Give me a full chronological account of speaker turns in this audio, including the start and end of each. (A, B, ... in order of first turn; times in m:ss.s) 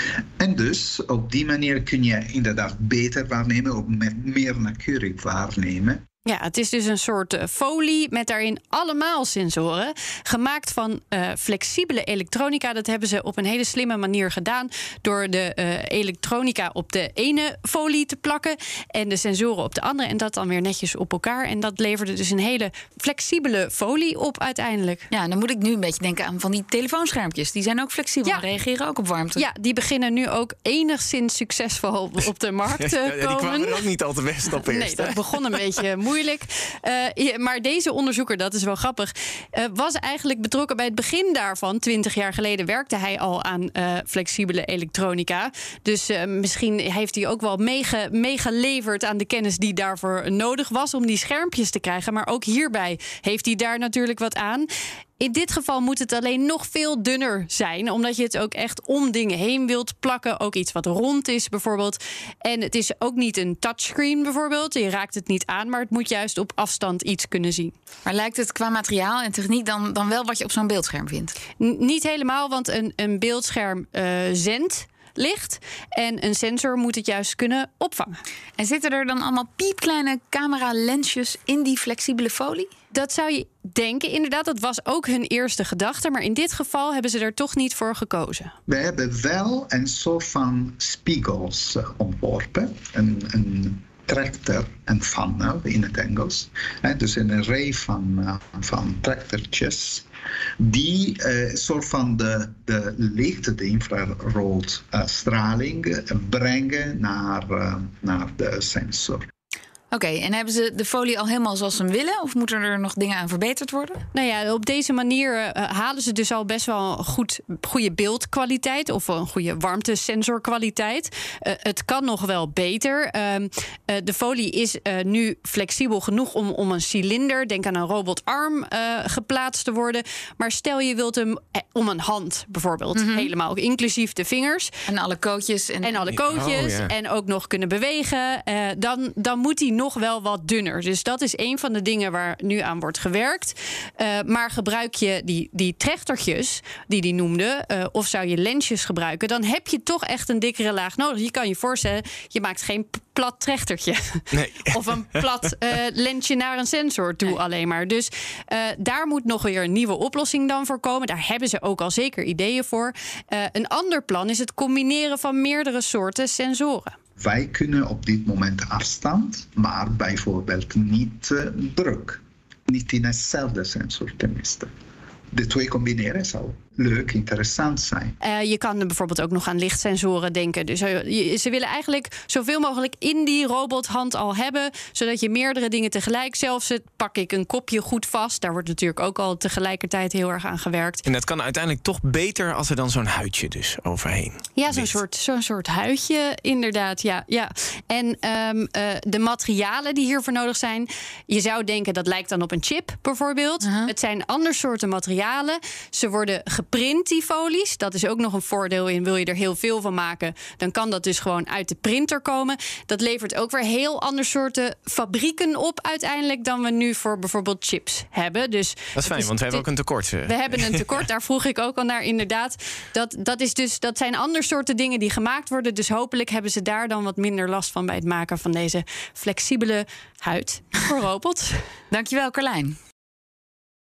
0:00.4-0:06.0 A
0:06.3-0:25.1 B
0:25.1-0:29.5 C
0:29.4-0:33.9 B
0:33.0-0:35.1 D
0:34.5-0:54.7 B
0:55.2-1:07.8 B
1:08.1-1:11.4 C
1:11.6-1:18.2 B
1:18.6-1:22.7 C
1:22.9-1:28.5 B
1:28.7-1:40.1 A
1:40.6-1:49.2 A
1:49.9-1:54.0 C
1:54.1-2:14.7 B
2:13.0-2:13.3 C
2:14.9-2:16.0 C
2:15.8-2:46.9 B
2:16.4-2:16.9 D
2:34.3-2:34.8 D
2:47.2-2:54.7 A
2:55.3-2:58.2 A
2:58.2-3:11.0 B
3:11.1-3:14.9 D
3:14.6-3:51.6 B
3:23.6-3:23.9 C
3:39.0-3:40.4 D
3:51.9-3:52.8 C